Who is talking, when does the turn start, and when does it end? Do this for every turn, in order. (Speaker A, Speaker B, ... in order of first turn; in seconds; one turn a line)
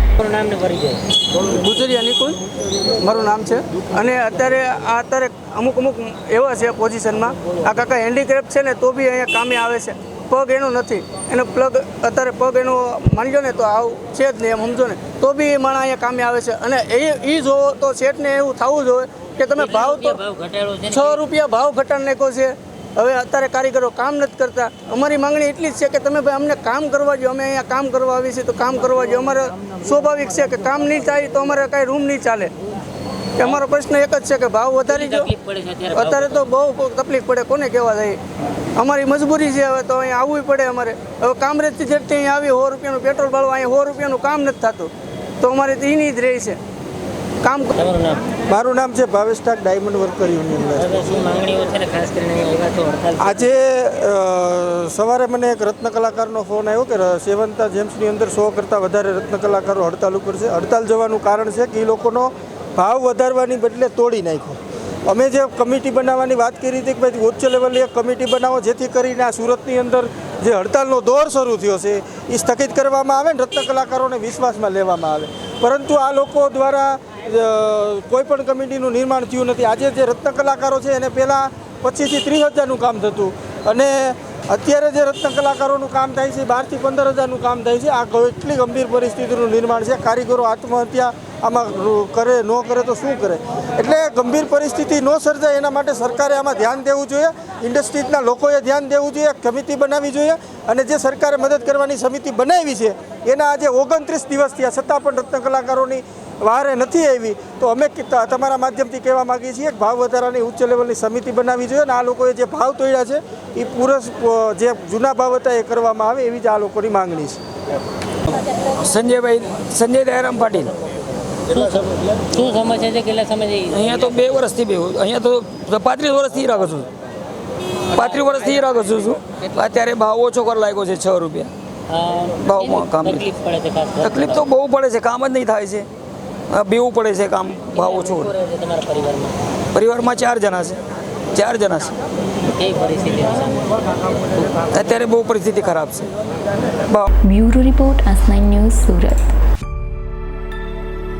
Speaker A: 0.2-1.0
Speaker B: 1.6-2.4
Speaker B: 3.0-20.2
Speaker A: 19.5-21.2
Speaker B: 20.9-32.5
Speaker B: 33.4-35.3
Speaker A: 33.4-33.6
Speaker A: 34.9-36.5
Speaker B: 35.9-38.2
Speaker B: 38.8-46.6
Speaker B: 47.4-47.7
Speaker A: 47.8-48.2
Speaker C: 48.5-51.0
Speaker A: 50.8-53.5
Speaker C: 53.2-117.4
Speaker D: 118.8-120.7
Speaker A: 121.5-124.1
Speaker D: 123.7-126.9
Speaker D: 127.9-131.5
Speaker A: 131.9-134.4
Speaker D: 132.4-133.3
Speaker D: 134.0-135.9
Speaker D: 136.5-138.4
Speaker A: 137.8-139.3
Speaker D: 139.7-140.8
Speaker D: 141.3-141.9
Speaker A: 142.6-144.5
Speaker D: 144.7-146.1
Speaker E: 147.3-149.3